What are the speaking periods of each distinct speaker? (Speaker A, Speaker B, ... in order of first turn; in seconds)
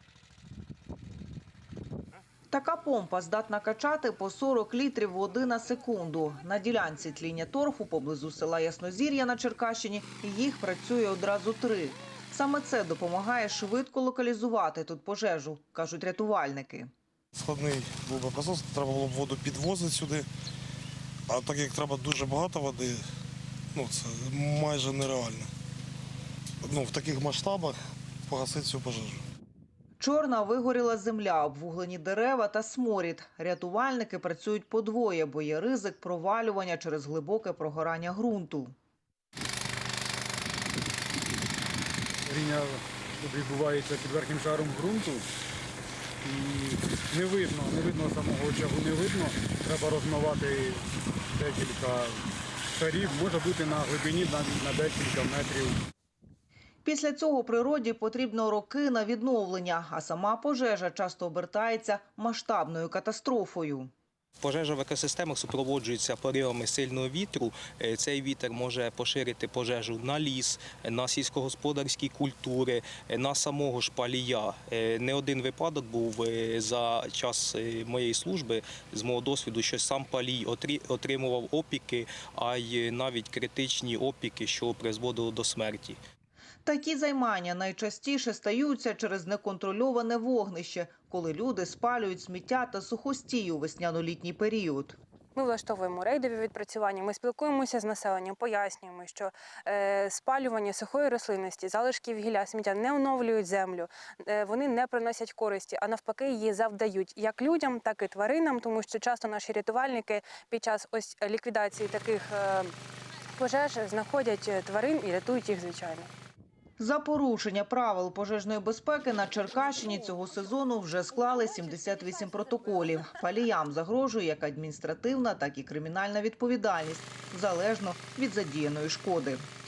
Speaker A: 2.5-16.9, 30.0-38.7, 56.9-63.9, 86.7-95.0, 116.8-129.4
Speaker B: 17.3-20.3, 21.3-23.1, 23.7-25.5, 26.6-29.2
Speaker C: 42.3-45.3, 46.2-50.8, 51.3-52.2, 52.8-55.8
Speaker D: 64.4-86.0
Speaker E: 95.3-112.8, 113.3-116.1